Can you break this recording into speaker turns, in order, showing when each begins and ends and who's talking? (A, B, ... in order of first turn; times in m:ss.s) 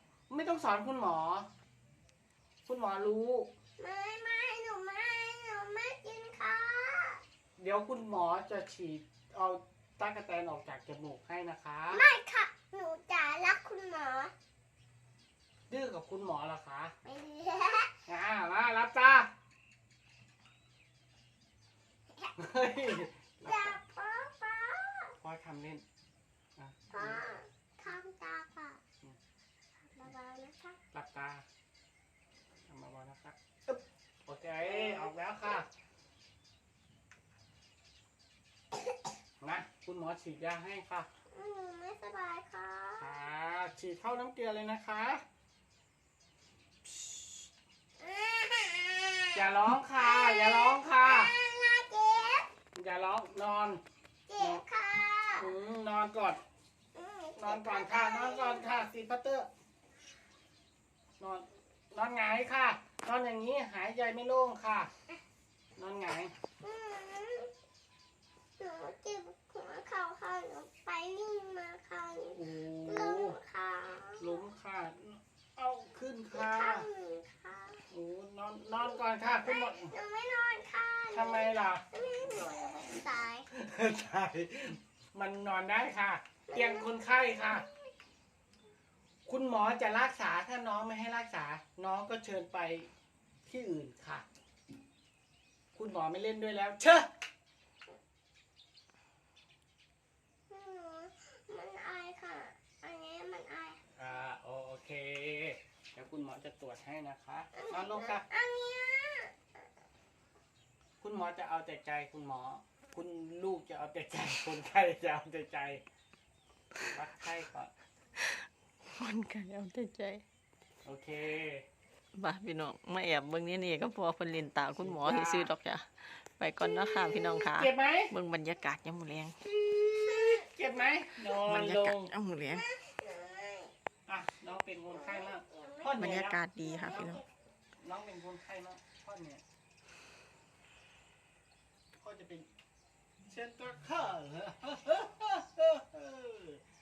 0:00.3-0:01.5 A
0:02.6-0:03.5 A
0:03.8-0:07.2 B
0:07.6-0:12.0 A
0:11.9-0:14.3 B
0:15.7-0:16.9 A
0:17.0-0:17.9 B
0:18.1-0:19.3 A
0:22.4-0:23.8 A
0:23.4-0:25.2 B
0:25.2-0:25.8 A
0:26.6-0:27.2 A
0:26.9-0:28.8 B
0:29.8-0:30.8 B
0:30.9-0:31.4 A
0:32.7-0:35.7 A
0:34.6-0:35.1 B
0:39.4-0:41.1 A
0:41.3-0:43.3 B
0:43.0-0:45.2 A
0:46.8-0:47.5 A
0:48.0-0:52.5 B
0:49.3-0:51.3 A
0:52.7-0:53.8 A
0:54.3-0:55.5 B
0:55.4-0:56.4 A
0:56.9-0:58.8 B
0:57.4-0:59.5 A
1:01.2-1:04.9 A
1:05.8-1:06.3 A
1:06.6-1:07.5 B
1:08.6-1:14.4 B
1:12.3-1:13.4 A
1:14.2-1:16.9 A
1:16.3-1:17.8 B
1:17.9-1:19.9 A
1:18.8-1:23.5 B
1:21.1-1:21.8 A
1:23.5-1:27.6 A
1:26.5-1:27.9 B
1:29.2-1:32.9 A
1:33.4-1:34.2 A
1:35.7-1:37.1 A
1:40.5-1:43.8 B
1:43.9-1:48.2 A
1:47.5-1:49.3 B
1:51.0-1:55.8 A
1:56.8-1:57.7 A
1:58.2-2:00.2 C
2:00.8-2:01.6 A
2:02.1-2:09.3 C
2:04.8-2:05.5 A
2:06.6-2:07.5 B
2:07.4-2:08.1 A
2:09.4-2:12.1 A
2:11.4-2:12.6 C
2:12.4-2:13.7 B
2:14.1-2:17.2 A
2:14.9-2:17.3 B
2:15.9-2:17.2 C
2:17.8-2:19.4 A
2:22.0-2:22.5 A
2:23.3-2:26.6 A